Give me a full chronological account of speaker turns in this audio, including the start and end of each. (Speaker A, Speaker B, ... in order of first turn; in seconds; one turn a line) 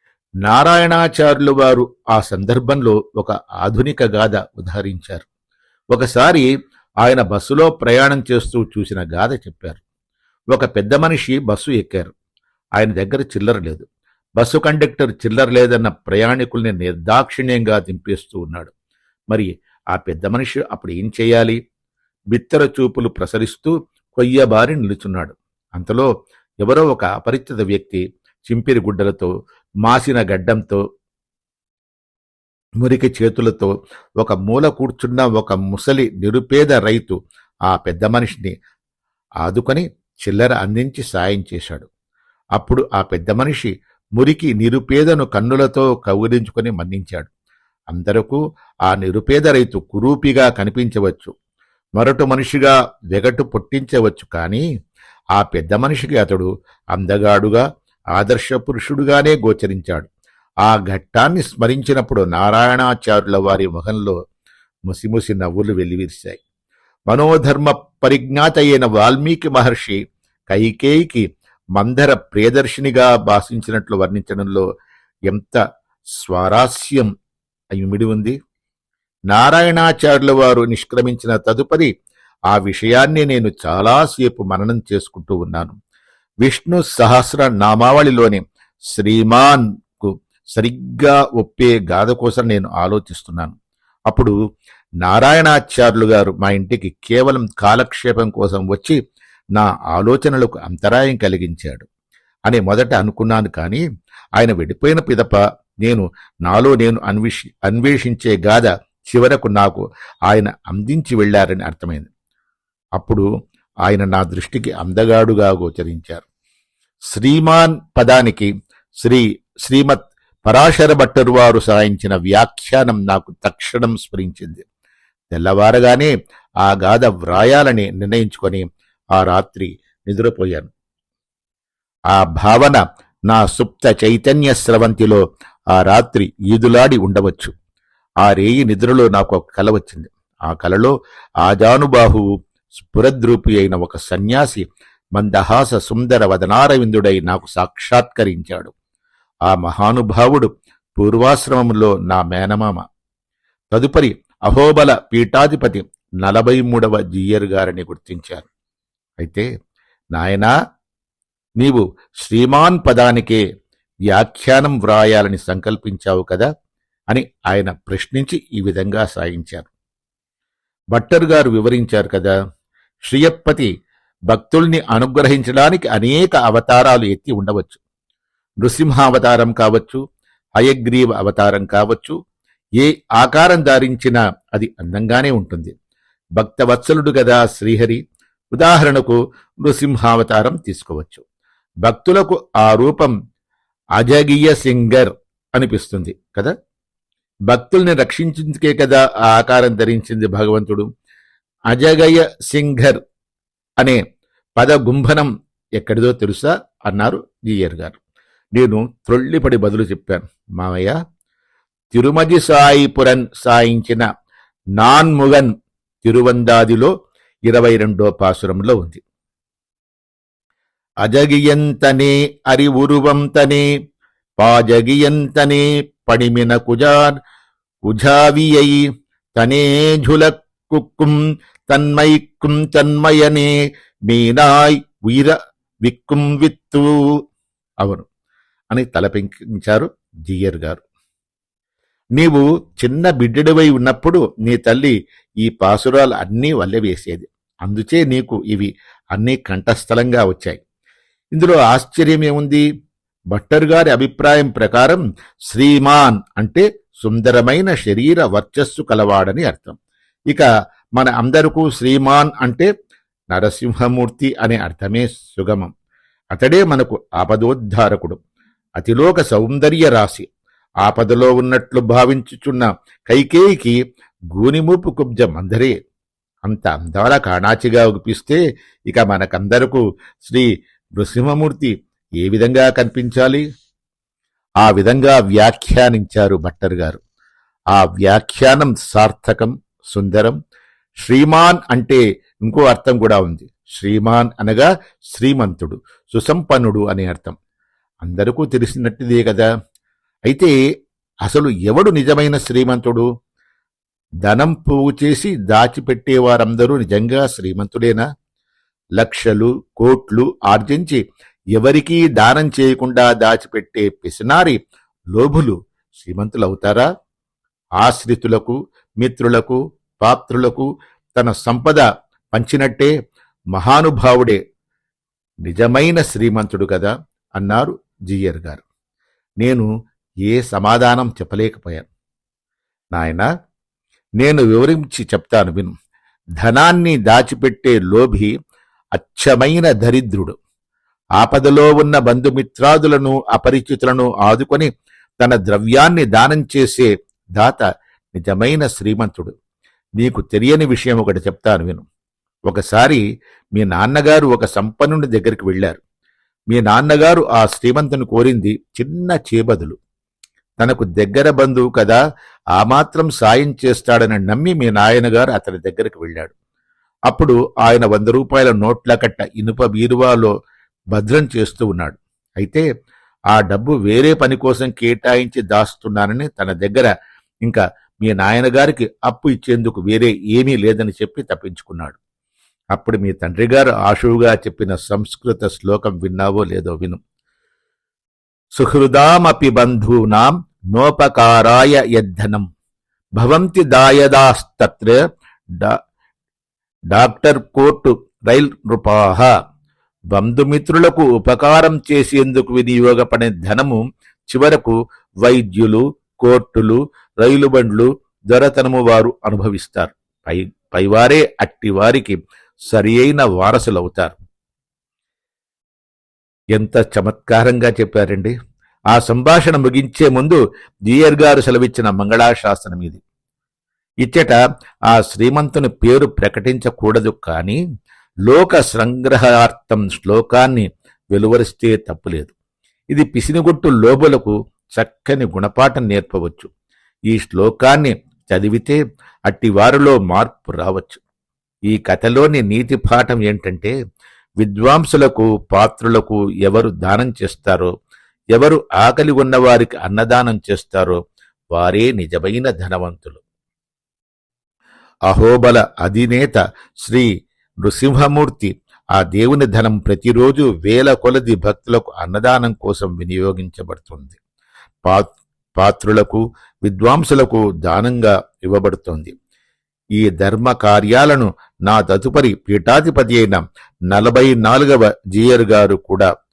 Speaker A: 0.5-5.3
Speaker A: 5.9-6.5
Speaker A: 7.0-9.8
Speaker A: 10.5-12.1
Speaker A: 12.8-13.9
Speaker A: 14.4-18.7
Speaker A: 19.3-21.6
Speaker A: 22.3-26.1
Speaker A: 26.6-29.3
Speaker A: 29.8-30.8
Speaker A: 32.8-37.2
Speaker A: 37.7-38.5
Speaker A: 39.4-41.9
Speaker A: 42.6-47.3
Speaker A: 47.9-51.3
Speaker A: 52.0-54.6
Speaker A: 55.4-57.6
Speaker A: 58.1-60.1
Speaker A: 60.6-64.2
Speaker A: 64.9-66.4
Speaker A: 67.1-70.0
Speaker A: 70.5-71.2
Speaker A: 71.8-74.6
Speaker A: 75.3-75.6
Speaker A: 76.2-77.1
Speaker A: 77.7-78.4
Speaker A: 79.3-81.9
Speaker A: 82.5-85.8
Speaker A: 86.4-88.4
Speaker A: 88.9-93.5
Speaker A: 95.0-99.0
Speaker A: 99.5-101.9
Speaker A: 102.5-103.8
Speaker A: 104.4-112.1
Speaker A: 113.0-113.2
Speaker A: 113.9-116.2
Speaker A: 117.1-118.5
Speaker A: 119.0-124.7
Speaker A: 125.3-126.1
Speaker A: 126.6-128.6
Speaker A: 129.2-130.7
Speaker A: 132.1-135.2
Speaker A: 135.7-137.5
Speaker A: 138.2-140.9
Speaker A: 141.4-142.2
Speaker A: 142.8-144.7
Speaker A: 145.2-148.7
Speaker A: 149.5-152.8
Speaker A: 153.7-158.5
Speaker A: 159.2-159.5
Speaker A: 160.2-160.5
Speaker A: 161.6-163.4
Speaker A: 164.1-166.5
Speaker A: 167.1-169.7
Speaker A: 170.9-172.3
Speaker A: 173.1-173.7
Speaker A: 174.3-177.8
Speaker A: 178.6-180.0
Speaker A: 180.6-182.2
Speaker A: 182.8-185.7
Speaker A: 186.4-188.0
Speaker A: 188.5-191.2
Speaker A: 191.8-193.1
Speaker A: 194.0-196.5
Speaker A: 197.5-200.9
Speaker A: 201.7-203.0
Speaker A: 204.6-208.0
Speaker A: 208.6-210.9
Speaker A: 211.9-214.0
Speaker A: 214.8-215.5
Speaker A: 216.0-216.9
Speaker A: 217.5-219.0
Speaker A: 221.0-223.7
Speaker A: 224.4-227.1
Speaker A: 227.9-228.8
Speaker A: 229.4-231.2
Speaker A: 231.7-233.5
Speaker A: 234.1-236.9
Speaker A: 238.7-240.8
Speaker A: 242.2-250.6
Speaker A: 251.3-252.7
Speaker A: 253.3-259.8
Speaker A: 261.0-262.7
Speaker A: 263.3-265.7
Speaker A: 266.4-268.2
Speaker A: 268.8-270.3
Speaker A: 270.8-273.8
Speaker A: 274.3-275.7
Speaker A: 276.4-280.4
Speaker A: 281.0-283.4
Speaker A: 284.6-287.0
Speaker A: 287.7-290.4
Speaker A: 291.0-297.4
Speaker A: 298.0-299.5
Speaker A: 301.2-303.1
Speaker A: 304.2-308.0
Speaker A: 309.0-311.0
Speaker A: 311.6-314.6
Speaker A: 315.1-316.9
Speaker A: 317.8-322.9
Speaker A: 323.5-324.4
Speaker A: 325.5-328.6
Speaker A: 329.4-329.7
Speaker A: 330.3-331.9
Speaker A: 332.9-333.3
Speaker A: 334.2-335.7
Speaker A: 336.4-338.3
Speaker A: 339.0-340.4
Speaker A: 341.2-344.7
Speaker A: 345.2-347.6
Speaker A: 348.1-349.3
Speaker A: 350.0-351.9
Speaker A: 352.5-353.0
Speaker A: 353.6-355.8
Speaker A: 356.5-359.8
Speaker A: 360.6-362.0
Speaker A: 362.6-366.3
Speaker A: 367.1-370.3
Speaker A: 370.9-372.6
Speaker A: 373.3-376.9
Speaker A: 377.5-382.0
Speaker A: 382.8-387.0
Speaker A: 388.6-392.4
Speaker A: 393.2-395.0
Speaker A: 396.9-399.3
Speaker A: 400.1-412.2
Speaker A: 412.7-414.2
Speaker A: 416.6-418.3
Speaker A: 418.9-423.0
Speaker A: 424.0-424.4
Speaker A: 424.9-427.6
Speaker A: 428.3-432.4
Speaker A: 432.9-436.5
Speaker A: 437.1-441.0
Speaker A: 441.7-443.7
Speaker A: 444.4-447.7
Speaker A: 448.4-451.0
Speaker A: 451.5-453.2
Speaker A: 455.1-457.1
Speaker A: 457.6-464.2
Speaker A: 465.6-469.1
Speaker A: 470.0-476.1